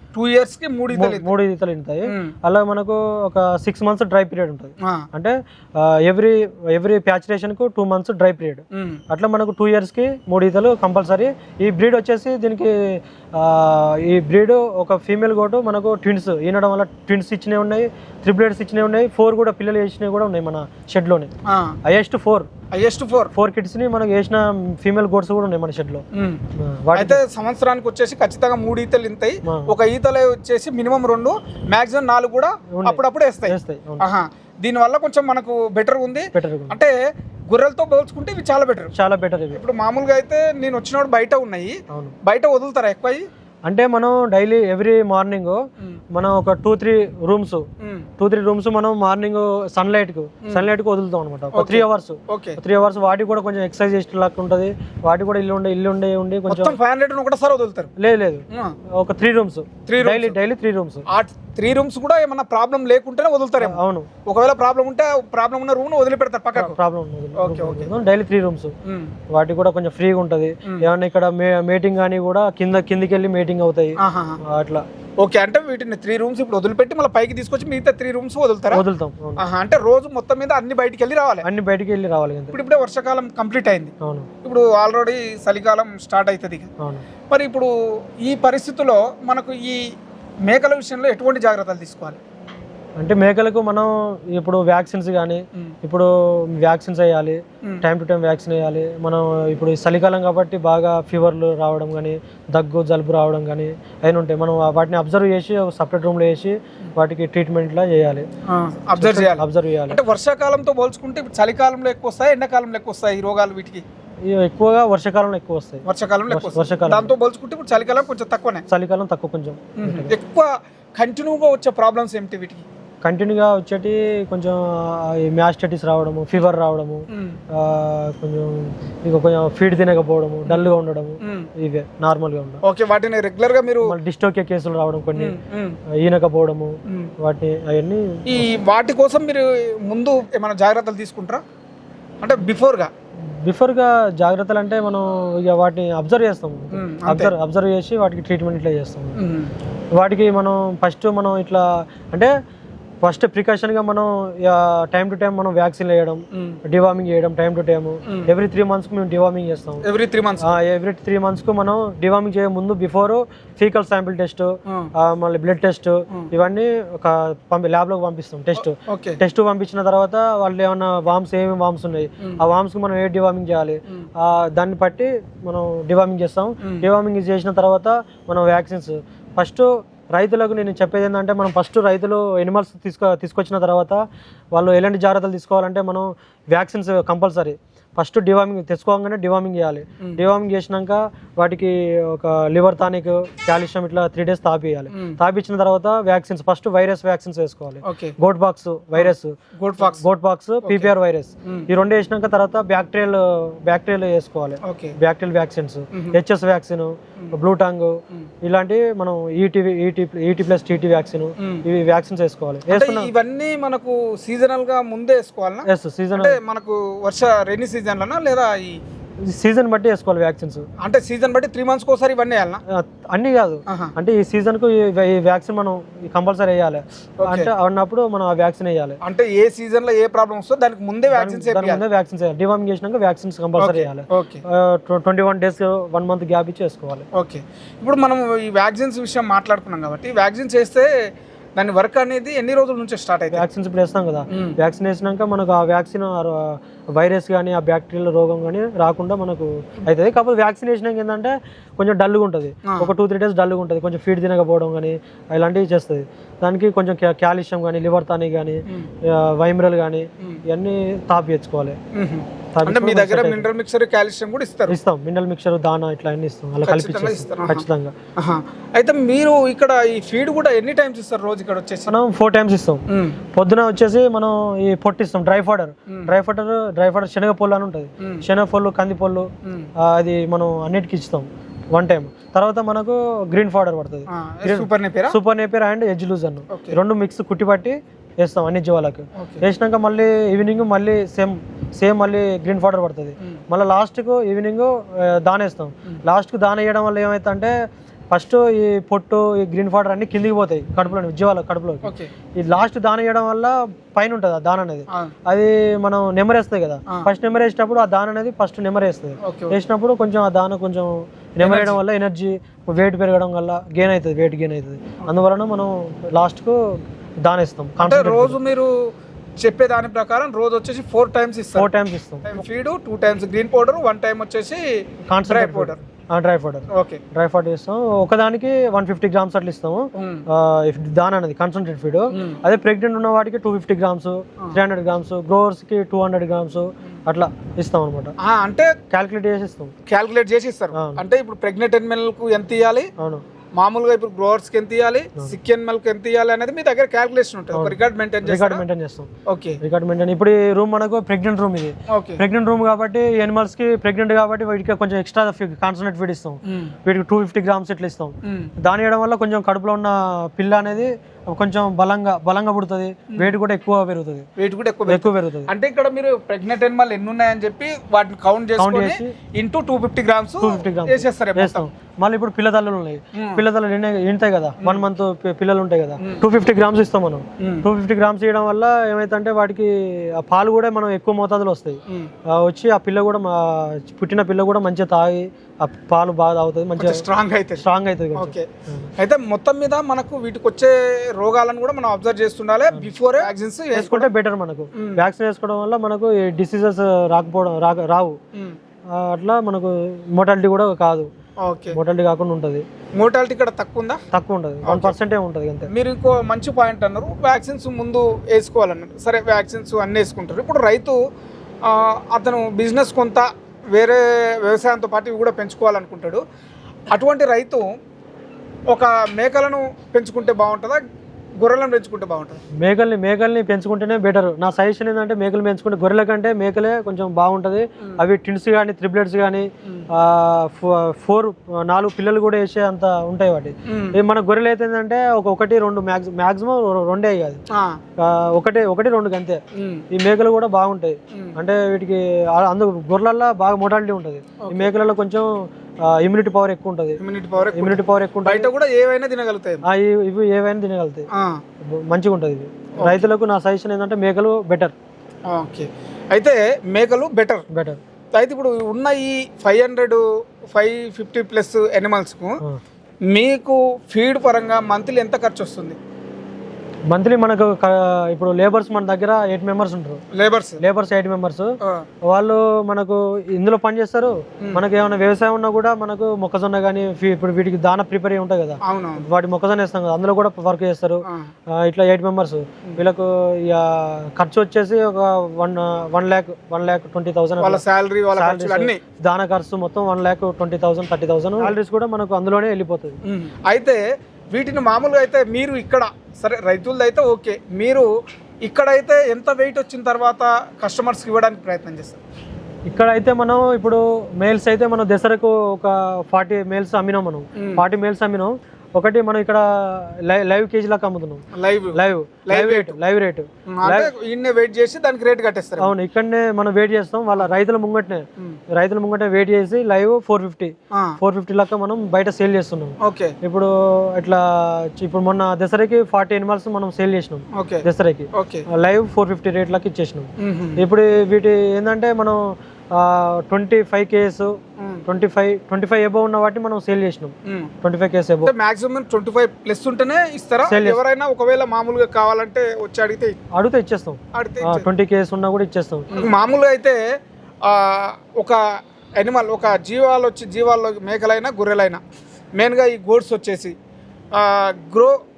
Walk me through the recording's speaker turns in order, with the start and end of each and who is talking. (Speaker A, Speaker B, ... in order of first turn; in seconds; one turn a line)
Speaker A: 0.1-1.3
Speaker B: 0.9-12.7
Speaker A: 2.1-2.3
Speaker A: 8.7-9.0
Speaker B: 13.3-21.3
Speaker A: 21.4-21.8
Speaker B: 21.8-22.5
Speaker A: 22.7-23.3
Speaker B: 23.3-26.0
Speaker A: 26.1-26.4
Speaker B: 26.6-27.2
Speaker A: 26.9-37.0
Speaker B: 29.4-29.7
Speaker B: 32.7-34.1
Speaker B: 36.3-36.8
Speaker A: 37.5-38.9
Speaker B: 38.9-39.6
Speaker A: 39.5-43.2
Speaker B: 41.9-42.1
Speaker B: 43.7-45.6
Speaker B: 46.1-47.6
Speaker A: 47.8-48.0
Speaker B: 48.2-56.8
Speaker A: 51.5-52.6
Speaker A: 56.5-57.9
Speaker B: 58.0-61.0
Speaker A: 58.5-58.8
Speaker A: 59.9-60.4
Speaker A: 61.1-66.8
Speaker B: 63.6-64.1
Speaker B: 66.5-68.7
Speaker A: 67.4-67.9
Speaker A: 68.8-69.1
Speaker B: 69.3-74.8
Speaker A: 74.0-74.4
Speaker A: 75.2-78.8
Speaker B: 78.7-79.4
Speaker A: 79.4-81.4
Speaker B: 81.4-82.5
Speaker A: 82.5-86.7
Speaker B: 84.0-84.3
Speaker B: 86.8-87.0
Speaker A: 87.3-87.7
Speaker A: 88.2-92.2
Speaker B: 93.0-108.3
Speaker A: 108.5-113.8
Speaker B: 109.0-110.0
Speaker B: 114.2-117.1
Speaker A: 115.8-118.6
Speaker B: 118.7-120.1
Speaker A: 119.8-122.6
Speaker B: 123.0-132.6
Speaker A: 127.1-127.4
Speaker A: 131.2-131.5
Speaker A: 132.6-133.9
Speaker B: 133.8-135.3
Speaker A: 135.2-135.8
Speaker B: 136.0-138.5
Speaker A: 136.9-137.1
Speaker A: 138.3-141.4
Speaker A: 142.2-142.9
Speaker B: 143.4-149.2
Speaker A: 146.7-147.3
Speaker A: 149.2-149.5
Speaker B: 150.0-152.3
Speaker B: 153.0-159.8
Speaker A: 156.3-156.6
Speaker A: 159.8-160.5
Speaker B: 160.4-184.0
Speaker A: 168.6-169.2
Speaker B: 184.5-213.1
Speaker A: 194.9-195.2
Speaker A: 197.8-198.1
Speaker A: 198.9-200.0
Speaker A: 200.6-200.9
Speaker A: 204.6-204.9
Speaker A: 212.7-218.8
Speaker B: 215.7-216.4
Speaker B: 219.3-220.7
Speaker A: 220.8-222.6
Speaker B: 222.7-229.0
Speaker A: 227.2-227.5
Speaker A: 229.0-231.8
Speaker B: 231.1-237.0
Speaker A: 233.6-234.4
Speaker A: 237.1-240.9
Speaker A: 241.6-243.4
Speaker B: 243.3-261.8
Speaker A: 261.9-264.8
Speaker B: 262.5-263.5
Speaker B: 264.7-267.9
Speaker A: 266.6-267.6
Speaker A: 268.2-271.9
Speaker B: 271.9-279.3
Speaker A: 272.9-273.1
Speaker A: 279.4-279.7
Speaker B: 279.8-297.5
Speaker A: 284.1-285.1
Speaker A: 289.1-289.4
Speaker B: 298.1-318.4
Speaker A: 301.8-302.1
Speaker A: 309.2-309.6
Speaker A: 311.4-311.8
Speaker A: 317.8-318.9
Speaker A: 319.4-321.7
Speaker B: 321.6-322.3
Speaker A: 322.2-324.7
Speaker B: 325.1-338.1
Speaker A: 325.2-325.8
Speaker A: 326.7-327.0
Speaker A: 329.9-330.2
Speaker A: 332.1-332.4
Speaker A: 338.2-338.7
Speaker B: 338.9-339.7
Speaker A: 339.9-342.9
Speaker B: 340.7-341.0
Speaker B: 343.0-343.2
Speaker A: 343.6-348.6
Speaker B: 347.5-349.1
Speaker A: 349.2-349.6
Speaker B: 349.6-364.2
Speaker A: 351.9-352.2
Speaker A: 356.5-356.7
Speaker A: 358.2-358.5
Speaker A: 364.4-371.7
Speaker B: 364.9-365.5
Speaker B: 368.6-369.1
Speaker B: 370.4-387.0
Speaker A: 373.1-373.4
Speaker A: 377.4-377.6
Speaker A: 386.8-387.6
Speaker B: 387.6-388.9
Speaker A: 388.1-388.5
Speaker A: 389.0-394.1
Speaker B: 392.7-398.2
Speaker A: 394.8-395.0
Speaker B: 398.9-401.1
Speaker A: 401.4-401.8
Speaker B: 401.7-402.6
Speaker A: 402.9-404.0
Speaker B: 404.1-405.7
Speaker A: 404.6-404.9
Speaker A: 405.7-411.0
Speaker A: 411.6-416.2
Speaker A: 416.9-417.7
Speaker A: 418.7-420.8
Speaker A: 421.4-422.4
Speaker B: 422.6-437.4
Speaker A: 433.7-433.9
Speaker A: 437.5-437.8
Speaker B: 438.0-439.4
Speaker A: 439.5-439.8
Speaker B: 439.9-448.5
Speaker A: 444.4-444.8
Speaker A: 447.0-449.6
Speaker B: 449.6-451.1
Speaker A: 451.1-451.4
Speaker B: 451.6-454.7
Speaker A: 452.8-453.1
Speaker A: 455.3-457.4
Speaker B: 457.5-457.8
Speaker A: 458.1-462.4
Speaker A: 463.1-465.8
Speaker B: 466.9-470.0
Speaker A: 470.1-470.6
Speaker B: 470.6-471.5
Speaker B: 472.1-487.6
Speaker A: 478.6-479.1
Speaker A: 487.4-488.8
Speaker B: 488.1-493.0
Speaker A: 493.1-493.8
Speaker A: 494.3-497.9
Speaker A: 498.4-502.0
Speaker B: 502.6-511.2
Speaker A: 507.4-507.6
Speaker A: 511.3-512.8
Speaker B: 511.7-513.9
Speaker A: 513.5-515.7
Speaker B: 515.6-532.2
Speaker A: 520.7-521.0
Speaker A: 522.8-523.1
Speaker A: 527.3-528.4
Speaker A: 530.2-530.6
Speaker B: 532.7-534.4
Speaker A: 534.6-534.8
Speaker B: 534.9-538.3
Speaker A: 538.2-543.1
Speaker B: 540.5-540.8
Speaker B: 543.3-545.9
Speaker A: 544.1-544.6
Speaker A: 545.9-546.8
Speaker A: 547.4-548.4
Speaker A: 549.0-551.8
Speaker A: 552.4-553.5
Speaker A: 554.1-554.9